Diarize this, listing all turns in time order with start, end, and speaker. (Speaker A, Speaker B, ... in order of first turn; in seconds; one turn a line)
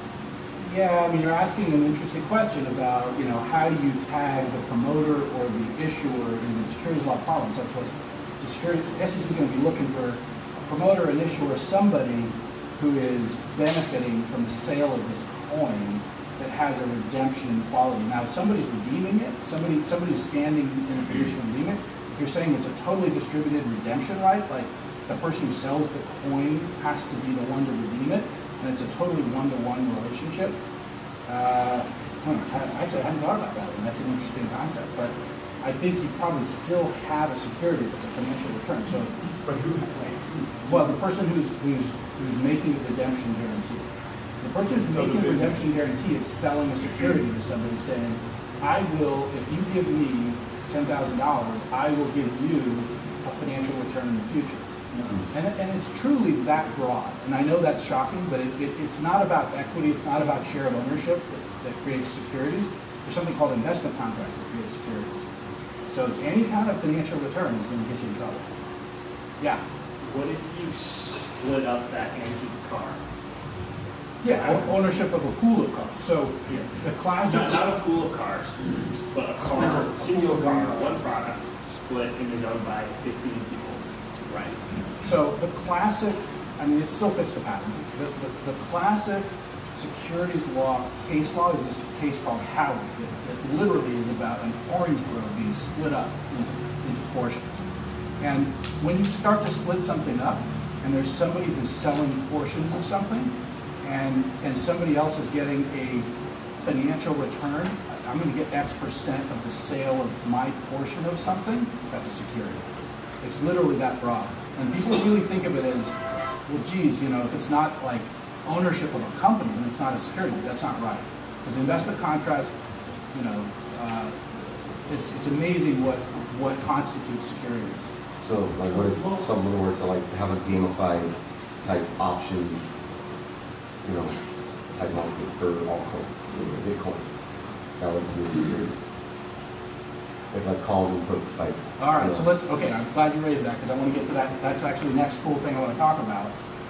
Speaker A: 0.6-30.6
Speaker A: 31.3-39.2
Speaker B: 39.4-40.9
Speaker A: 40.7-43.9
Speaker A: 44.4-65.1
Speaker B: 44.9-45.6
Speaker A: 65.9-68.5
Speaker C: 70.0-73.0
Speaker A: 74.2-77.7
Speaker C: 77.2-78.6
Speaker C: 79.1-83.8
Speaker A: 80.0-80.7
Speaker A: 84.3-97.6
Speaker A: 98.2-103.3
Speaker A: 103.8-106.1
Speaker A: 106.6-112.7
Speaker A: 113.2-115.9
Speaker A: 116.5-122.5
Speaker A: 123.1-124.2
Speaker A: 124.9-127.9
Speaker D: 128.2-132.7
Speaker D: 133.8-134.2
Speaker D: 134.7-137.0
Speaker D: 137.8-138.7
Speaker D: 140.3-142.2
Speaker A: 141.8-146.3